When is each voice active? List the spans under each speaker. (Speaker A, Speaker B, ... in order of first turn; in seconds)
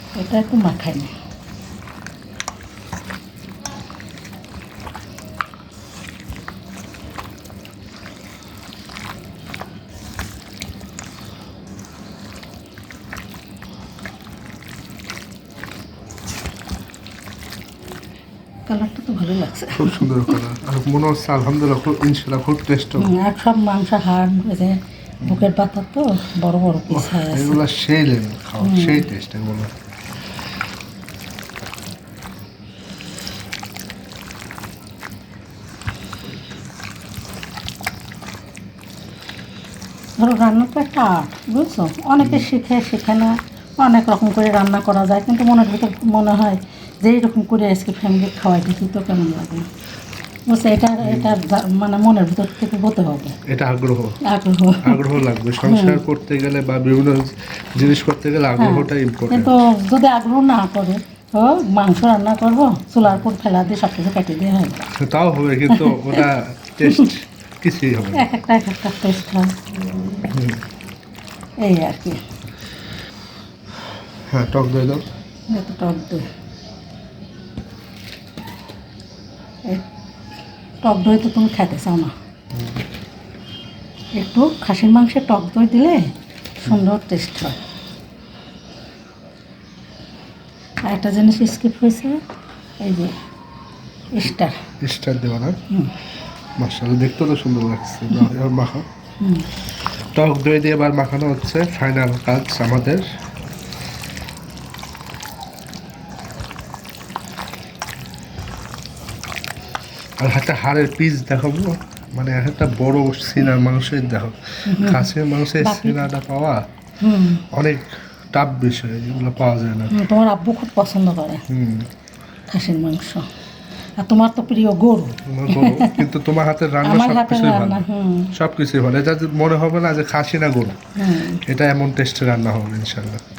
Speaker A: 0.2-1.1, 18.7-20.4, 23.0-27.6, 28.6-29.1, 40.2-49.7, 50.5-53.4, 54.2-56.0, 58.6-64.9, 65.7-66.2, 68.2-70.2, 71.6-72.2, 75.5-76.3, 80.8-82.1, 84.2-86.1, 86.6-87.6, 90.9-92.2, 92.8-93.1, 94.1-94.6, 99.2-99.5, 114.7-116.0, 117.0-117.5, 119.9-121.4, 122.5-123.3, 124.0-126.1, 126.8-128.3, 131.0-131.4
Speaker B: 19.8-23.1, 26.9-29.7, 42.2-42.5, 51.0-51.3, 53.5-54.2, 54.8-59.5, 65.0-68.3, 70.3-70.6, 74.3-75.0, 94.8-95.6, 96.6-98.9, 100.2-103.1, 110.2-116.6, 117.5-120.0, 121.5-121.9, 125.2-127.8, 128.3-130.8, 131.4-133.2